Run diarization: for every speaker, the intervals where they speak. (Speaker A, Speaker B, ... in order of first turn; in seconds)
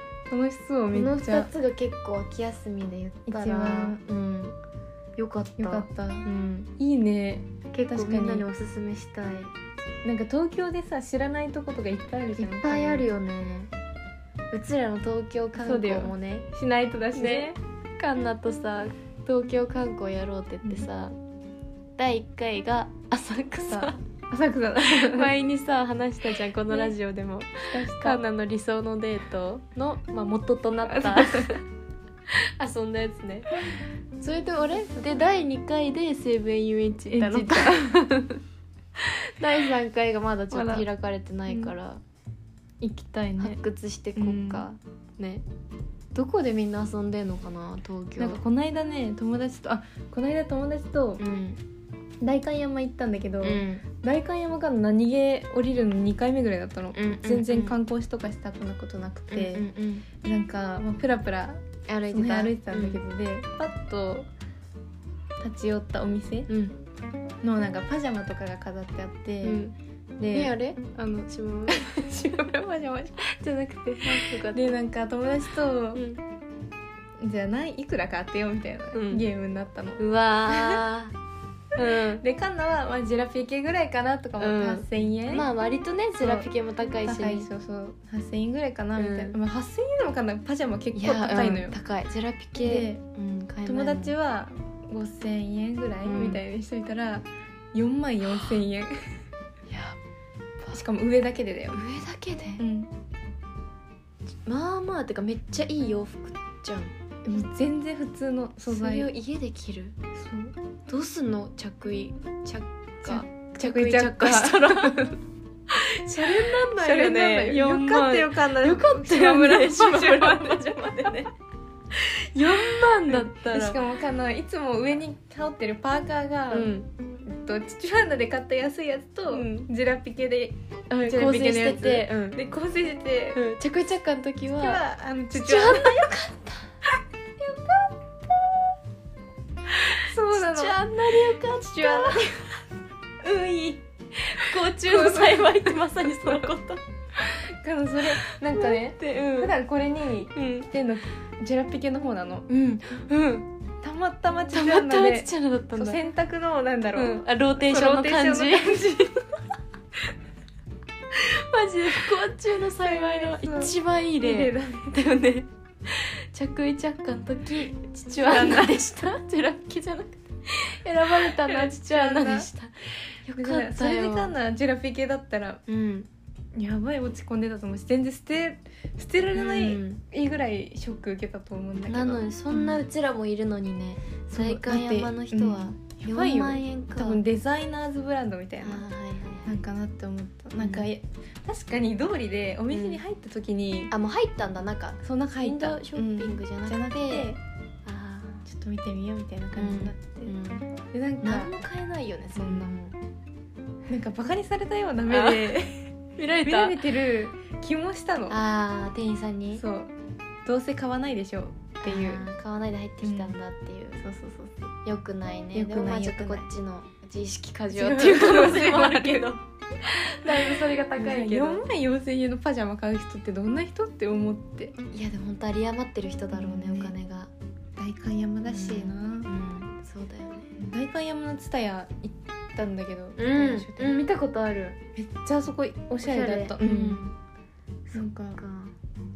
Speaker A: 0.3-1.5, 3.3-4.0, 5.6-8.5, 10.0-13.1, 15.6-17.6, 23.7-25.3, 26.7-26.9, 27.7-28.2, 30.9-31.6, 34.7-35.2, 37.1-38.4, 40.5-40.9, 41.5-41.7, 42.8-43.6, 44.1-44.6, 48.2-51.2, 52.2-64.3, 65.4-66.5, 67.4-69.6, 70.2-70.5, 71.7-76.0, 77.2-80.8, 82.2-85.5, 86.2-86.5, 87.0-91.8, 92.6-93.0, 93.6-99.2, 100.7-101.8, 102.6-102.9, 107.2-109.1, 110.1-110.5, 113.0-115.2, 116.1-121.1, 122.4-133.4, 134.5-136.1, 137.4-137.9, 139.7-142.6, 143.2-143.8, 144.3-146.5, 147.1-152.5, 153.8-159.1, 162.8-165.0, 168.2-168.8, 171.1-172.5, 173.3-175.6, 176.5-182.8, 184.3-188.8, 189.4-193.9, 195.0-197.4, 198.4-200.3, 200.9-201.5, 202.3-202.8, 203.9-208.4, 209.6-209.9, 210.4-212.2, 213.0-213.3, 214.0-214.7, 215.5-216.5, 217.7-219.3, 219.8-224.8, 226.3-226.9, 227.8-229.3, 230.6-234.0, 234.9-237.0, 237.9-238.4
Speaker B: 0.9-4.6, 5.2-6.7, 7.7-9.5, 12.4-13.7, 14.5-16.5, 17.1-21.1, 22.0-24.0, 24.8-31.6, 32.3-33.5, 34.2-37.9, 39.4-42.0, 43.4-45.4, 46.1-48.4, 51.2-51.6, 53.4-53.8, 56.9-57.8, 59.3-60.1, 61.9-63.0, 66.5-66.8, 69.4-72.0, 74.0-74.7, 75.9-76.2, 78.9-79.2, 80.0-81.1, 81.8-82.2, 84.4-87.5, 89.0-89.4, 90.9-94.1, 96.0-96.4, 99.7-100.0, 101.7-102.6, 104.5-106.9, 108.7-110.0, 110.9-115.1, 115.7-121.3, 122.3-123.8, 126.5-126.9, 129.3-129.7, 130.9-132.4, 133.3-136.8, 139.9-142.3, 144.2-146.8, 148.0-149.6, 150.3-150.7, 152.5-153.5, 154.5-156.0, 156.9-159.3, 161.1-174.3, 175.7-176.1, 179.3-180.0, 181.9-187.2, 188.6-189.6, 190.6-190.9, 192.7-193.0, 193.9-197.3, 197.8-198.4, 199.5-200.7, 201.2-203.0, 205.1-205.6, 206.2-206.8, 208.3-209.6, 211.8-214.0, 214.8-219.4, 220.2-221.6, 224.9-227.3, 228.4-230.5, 233.2-234.8, 236.0-237.2, 237.9-238.7